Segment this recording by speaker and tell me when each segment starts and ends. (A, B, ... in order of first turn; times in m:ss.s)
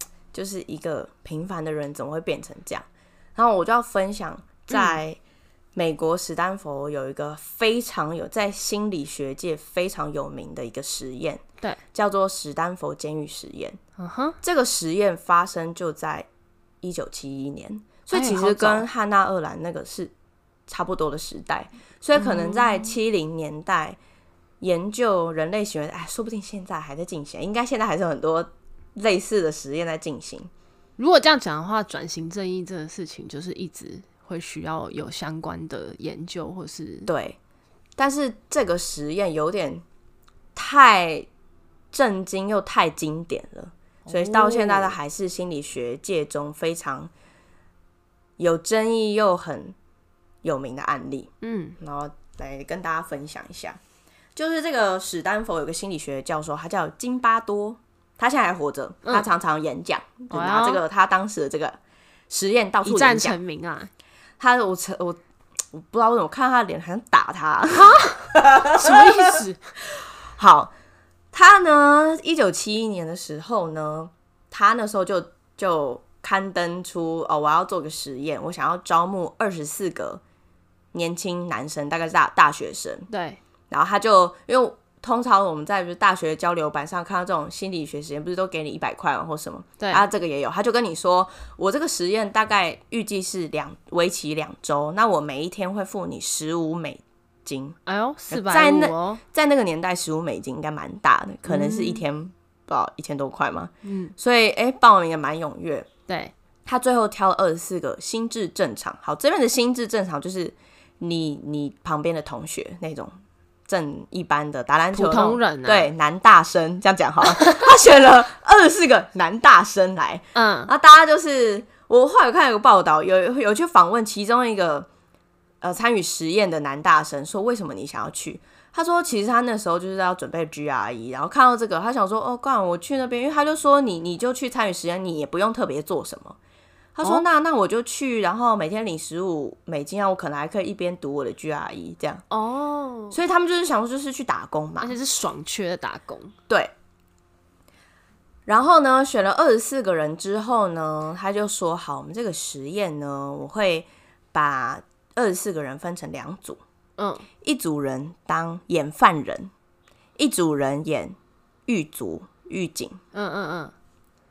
0:00.3-0:05.2 A
0:04.7-0:05.0 B
0:05.7-0:11.4 A
0:11.9-0:13.8 A
0:14.0-0:14.4 B
0:14.4-0:16.3 A
0:16.8-0:20.1 A
0:18.1-0:18.9 B
0:20.7-0:24.0 A
0:22.1-0:22.9 B
0:24.6-0:30.5 A
0:31.0-0:37.1 B
0:37.0-0:37.4 A
0:38.0-0:39.8 A
0:40.5-0:41.3 A
0:41.9-0:47.1 A
0:44.1-0:45.0 B
0:48.4-0:49.7 A
0:50.4-0:53.8 A
0:51.4-0:51.8 B
0:54.3-1:01.8 A
1:00.3-1:00.8 B
1:02.3-1:03.4 A
1:02.8-1:03.9 B
1:04.4-1:05.2 A
1:05.7-1:10.7 A
1:07.7-1:09.6 B
1:11.3-1:20.2 A
1:20.9-1:23.1 A
1:23.1-1:23.4 B
1:23.7-1:37.8 A
1:29.8-1:30.0 B
1:37.8-1:39.2 B
1:38.3-1:45.9 A
1:41.4-1:42.0 B
1:43.8-1:44.1 B
1:46.1-1:46.3 B
1:46.6-1:53.1 A
1:53.7-2:04.9 A
1:54.9-1:55.9 B
1:57.2-1:57.7 B
2:00.3-2:00.7 B
2:05.6-2:16.4 A
2:16.9-2:22.2 A
2:22.3-2:23.2 B
2:23.1-2:25.0 A
2:24.8-2:26.3 B
2:28.4-2:36.6 A
2:37.0-2:37.2 B
2:37.4-2:39.5 A
2:40.2-2:41.1 A
2:41.7-2:43.0 A
2:43.1-2:43.7 B